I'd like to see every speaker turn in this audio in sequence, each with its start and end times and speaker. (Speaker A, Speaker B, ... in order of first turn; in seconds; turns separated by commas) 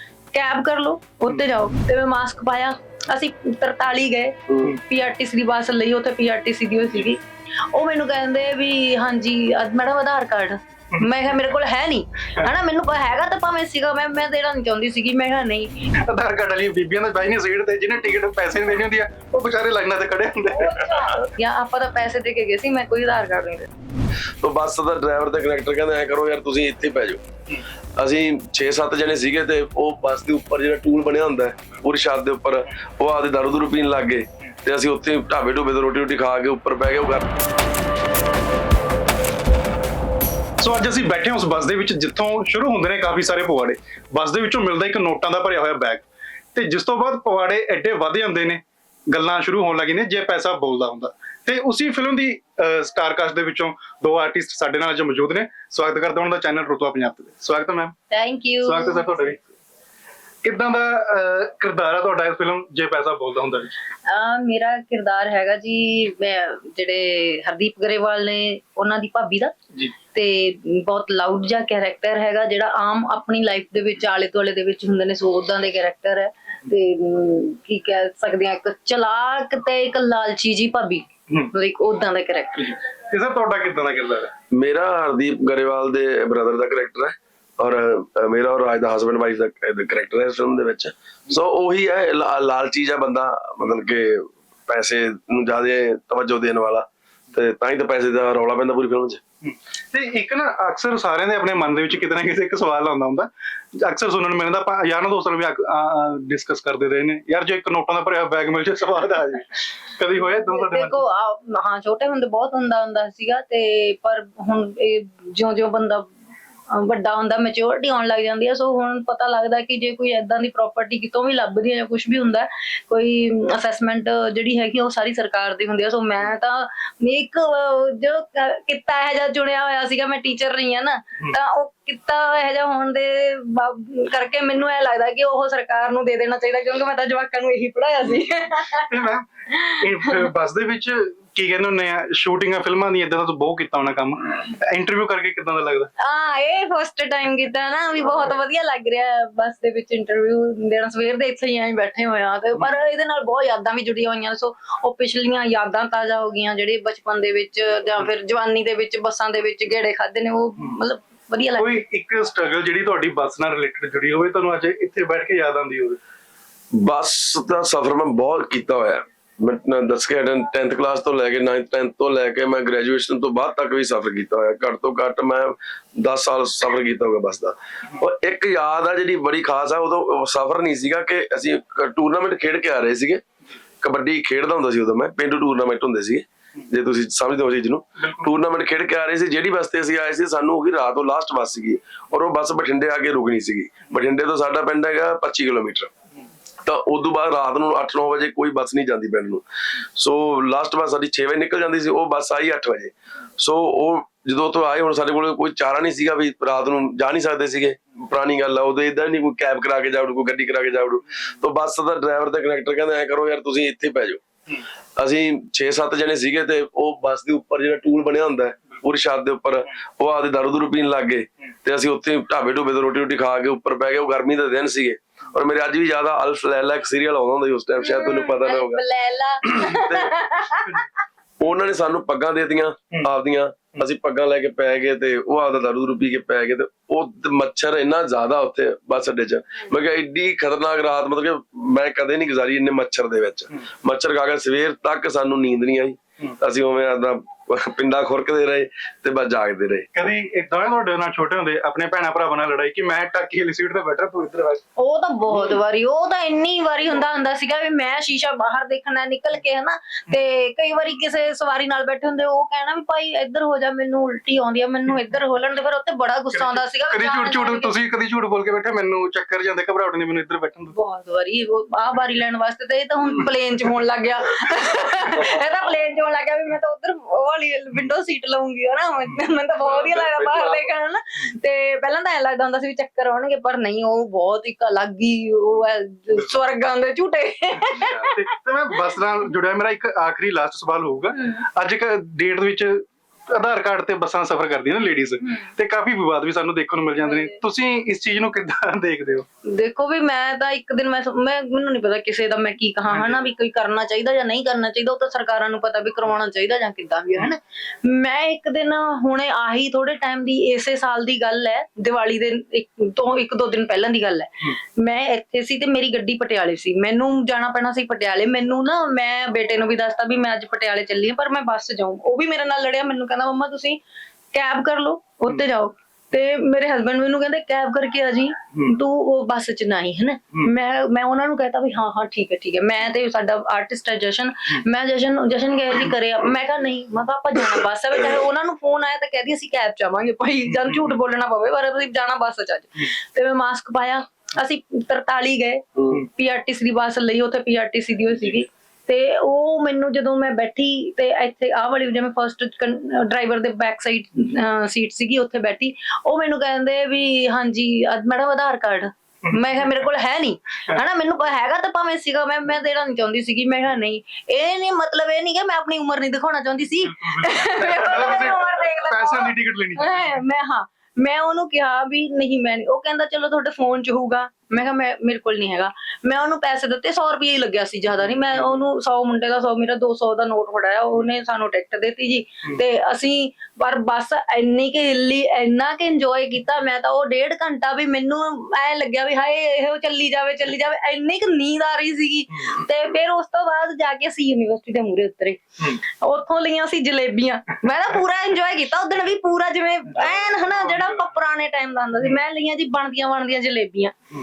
Speaker A: 0.3-7.2, Speaker A: 7.7-15.8, Speaker B: 16.0-20.9, Speaker A: 20.6-23.7, Speaker C: 24.4-27.2, Speaker C: 27.9-37.3, Speaker B: 40.6-57.9, Speaker A: 58.1-59.2, Speaker B: 58.6-59.4, Speaker B: 60.4-63.7, Speaker A: 64.0-69.5, Speaker A: 70.1-82.7, Speaker B: 82.6-84.3, Speaker C: 84.5-99.2, Speaker B: 99.4-111.0, Speaker A: 110.3-116.1, Speaker A: 116.7-140.3, Speaker B: 138.9-145.9, Speaker A: 146.0-161.8, Speaker B: 161.6-166.0, Speaker C: 166.7-183.2, Speaker C: 183.8-195.9, Speaker B: 188.0-188.3, Speaker C: 196.6-199.4, Speaker C: 199.9-214.2, Speaker C: 215.0-228.8, Speaker A: 227.8-230.8, Speaker C: 229.4-230.2, Speaker C: 231.4-249.9, Speaker B: 249.9-254.6, Speaker A: 254.8-267.7, Speaker B: 266.3-270.7, Speaker A: 270.7-288.2, Speaker C: 279.7-280.6, Speaker B: 287.9-299.2, Speaker A: 297.1-297.3, Speaker A: 299.4-323.8, Speaker B: 302.9-303.2, Speaker A: 324.3-403.9, Speaker B: 366.9-370.2, Speaker B: 400.3-401.0